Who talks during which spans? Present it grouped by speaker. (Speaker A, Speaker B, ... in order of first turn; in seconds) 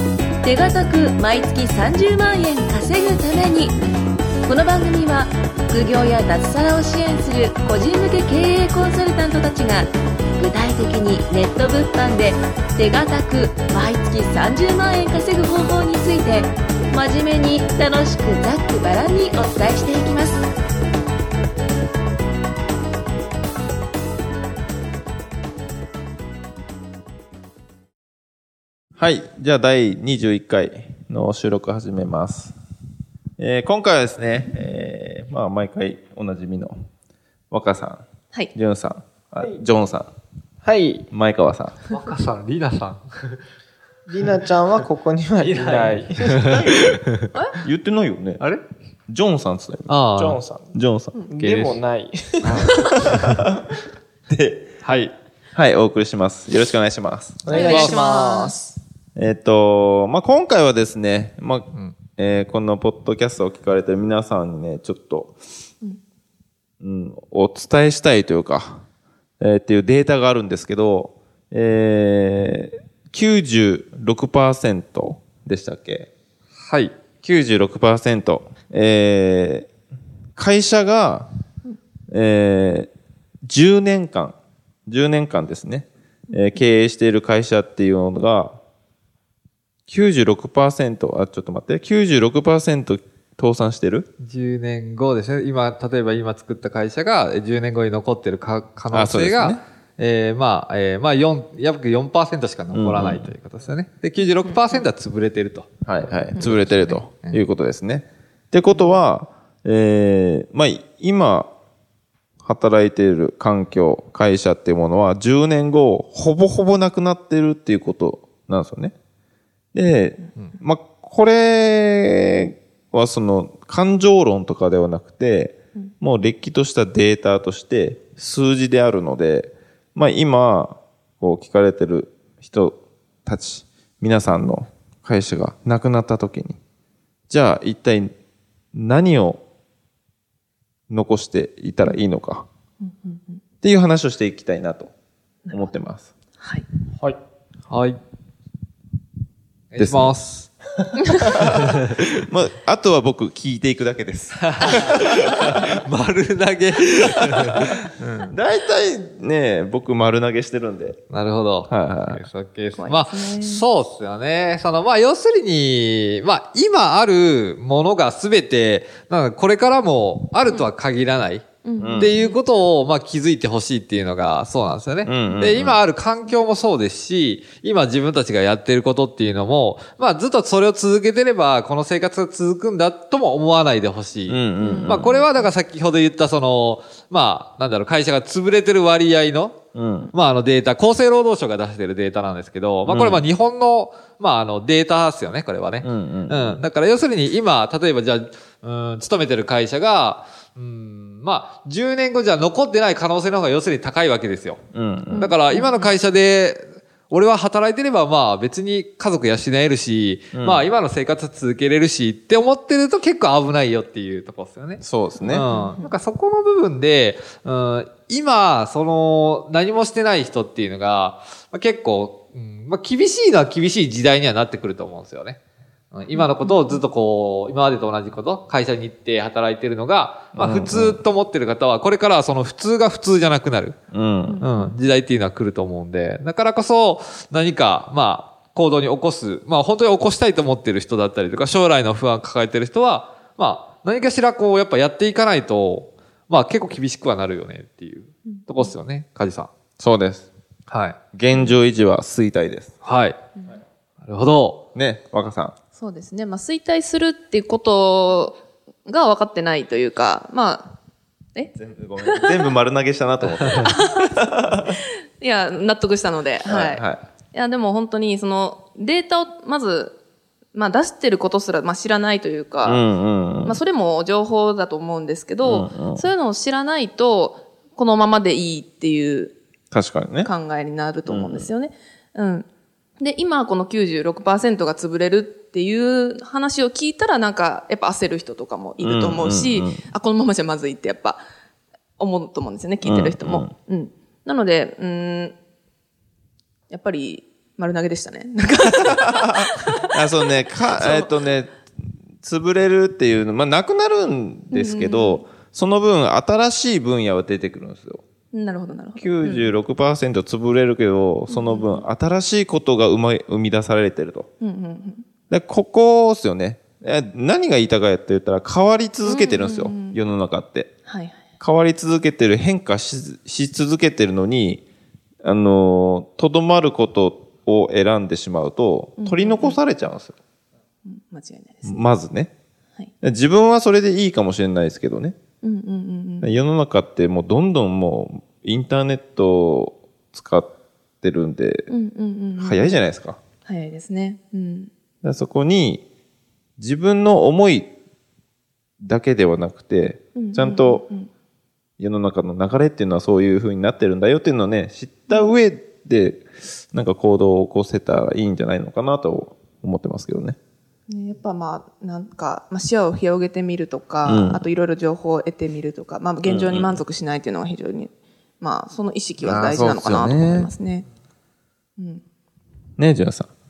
Speaker A: 0.4-3.7, 4.5-20.4
Speaker B: 29.0-32.5, 33.4-36.8, 37.5-40.1, 41.1-41.8, 47.6-48.4, 49.1-50.0, 50.7-51.2, 54.3-54.7, 55.5-57.5, 59.2-65.4, 66.8-68.8, 69.4-76.1, 77.2-79.7, 80.4-81.3, 82.1-82.9, 83.4-84.4, 84.9-88.6, 89.9-94.1, 98.9-99.6, 102.7-103.3, 105.8-111.5, 112.4-119.0, 119.7-136.6, 137.3-138.1, 138.7-139.4, 140.9-142.4, 143.6-144.9, 145.5-146.1, 149.8-150.2, 151.3-155.0, 158.3-161.0, 161.7-162.2, 171.8-172.1, 175.0-175.8, 184.3-185.2, 189.7-190.1, 192.9-193.2, 195.8-196.6, 204.7-205.3, 210.3-210.7, 214.8-215.5, 230.3-231.0, 233.9-234.4, 249.8-250.3, 251.1-252.7, 254.7-255.5, 261.6-264.8, 266.5-267.0, 272.6-273.6, 275.4-276.1, 279.7-280.3, 281.1-281.5, 288.8-289.8, 292.8-293.5, 299.5-301.6, 302.2-308.0, 309.0-314.3, 315.3-320.7, 321.4-324.6, 325.2-330.2, 331.6-332.3, 333.0-335.2, 336.2-340.5, 341.0-341.7, 342.4-343.2, 345.0-345.9, 346.6-347.7, 348.8-350.9, 351.8-360.4, 364.1-364.4, 366.2-366.8, 369.2-370.5, 372.8-373.3
Speaker C: 40.6-41.1, 44.1-46.8, 50.2-50.8, 51.3-52.8, 57.4-58.8
Speaker D: 41.9-43.4, 45.4-47.2, 49.9-50.4, 51.4-51.8, 52.4-53.3, 54.8-55.1, 57.5-58.0, 76.6-76.9, 94.2-107.4, 147.7-148.0, 149.7-150.5, 154.4-158.3, 161.1-189.6, 190.1-204.6, 205.2-225.4, 225.9-233.8, 234.4-249.5, 250.7-251.0, 252.8-253.2, 254.0-254.6
Speaker E: 57.5-58.5, 104.4-104.9, 142.8-143.4, 146.4-146.7, 162.8-163.6, 171.6-172.4, 184.6-185.2, 205.1-205.9, 215.2-215.9, 226.1-226.8, 234.2-234.8, 248.3-248.7, 251.3-251.6, 255.7-260.7, 262.0-262.5, 263.5-264.2, 265.2-269.9, 270.5-272.8, 273.4-279.4, 280.2-282.4, 283.0-291.2, 292.0-295.4, 296.7-299.9, 300.8-301.1, 304.5-305.2, 308.3-309.5, 311.3-311.9, 314.4-315.1, 319.0-320.0, 320.9-321.2, 329.0-329.6, 330.9-331.9, 335.4-336.3, 341.7-342.8, 343.5-344.7, 350.2-351.1, 355.1-355.4, 360.9-370.9